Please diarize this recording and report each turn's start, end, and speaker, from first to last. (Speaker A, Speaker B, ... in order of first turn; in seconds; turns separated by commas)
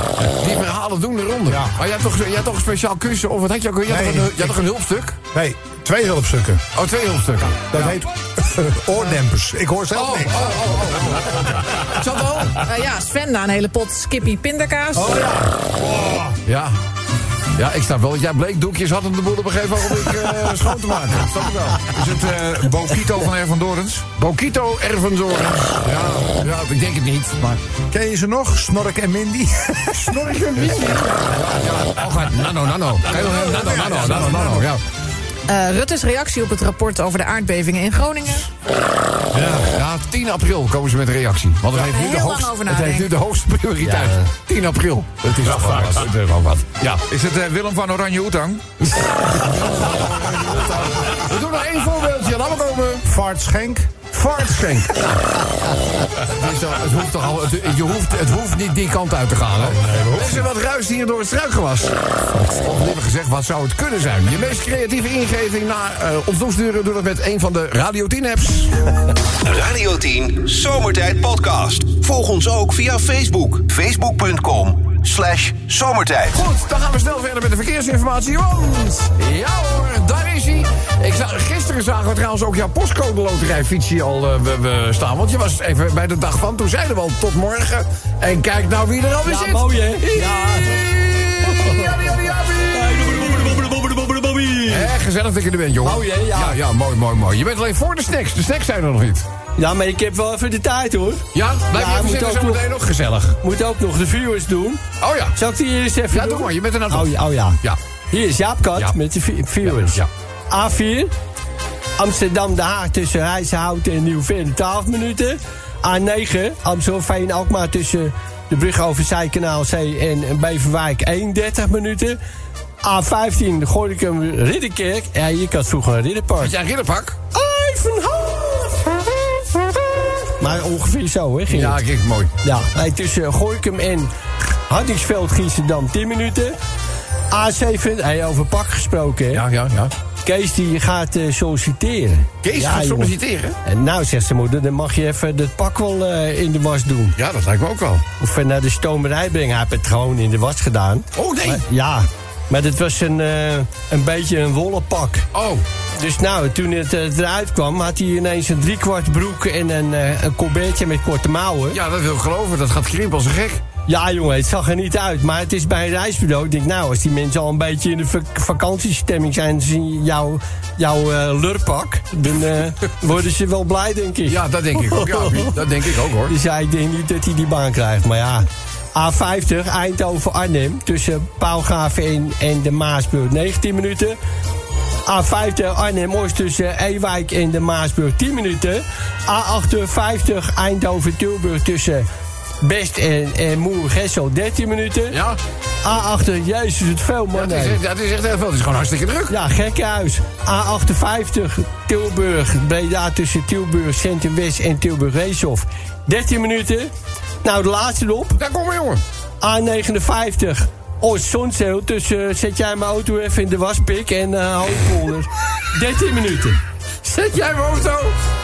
Speaker A: 0.3-5.2, Speaker B: 1.5-1.7, Speaker B: 3.9-4.6, Speaker B: 5.3-6.6, Speaker A: 6.7-8.0, Speaker B: 7.7-11.9, Speaker A: 9.9-12.6, Speaker C: 12.6-15.2, Speaker B: 14.9-16.4, Speaker A: 16.4-16.7, Speaker A: 17.6-22.1, Speaker D: 21.9-24.0, Speaker A: 24.2-27.6, Speaker B: 25.8-26.4, Speaker B: 27.9-32.0, Speaker A: 29.9-34.8, Speaker B: 33.0-34.7, Speaker C: 35.5-38.5, Speaker B: 39.3-39.7, Speaker A: 39.6-47.0, Speaker C: 41.7-43.1, Speaker E: 43.8-44.3, Speaker D: 47.1-48.6, Speaker A: 48.8-53.0, Speaker B: 53.0-53.9, Speaker A: 54.1-55.4, Speaker A: 56.2-68.7, Speaker B: 59.6-60.5, Speaker F: 69.4-76.4, Speaker A: 76.3-93.5, Speaker E: 89.2-90.9, Speaker E: 91.4-94.9, Speaker A: 94.7-99.2, Speaker E: 95.8-96.6, Speaker E: 99.6-102.7, Speaker A: 101.3-103.4, Speaker E: 103.4-104.8, Speaker A: 105.0-105.4, Speaker E: 105.3-107.6, Speaker A: 106.1-107.8, Speaker E: 108.1-111.1, Speaker A: 109.6-110.1, Speaker E: 112.0-122.2, Speaker E: 122.8-126.5, Speaker A: 126.4-127.2, Speaker E: 127.3-131.8, Speaker A: 131.5-132.3, Speaker E: 132.4-134.1, Speaker E: 134.7-136.6, Speaker E: 137.3-139.4, Speaker A: 139.3-139.9, Speaker E: 140.2-147.2, Speaker A: 142.4-143.6, Speaker A: 147.2-148.0, Speaker E: 148.2-155.3, Speaker A: 151.1-151.6, Speaker A: 155.3-155.6, Speaker E: 156.0-161.8, Speaker A: 161.7-163.6, Speaker E: 163.9-175.7, Speaker A: 174.3-176.3, Speaker E: 176.2-184.2, Speaker E: 185.1-192.1, Speaker E: 192.6-195.2, Speaker A: 195.1-195.4, Speaker E: 195.8-197.8, Speaker A: 197.3-199.4, Speaker E: 199.3-206.9, Speaker E: 207.4-208.4, Speaker A: 208.4-209.0, Speaker E: 209.4-216.6, Speaker A: 217.0-218.2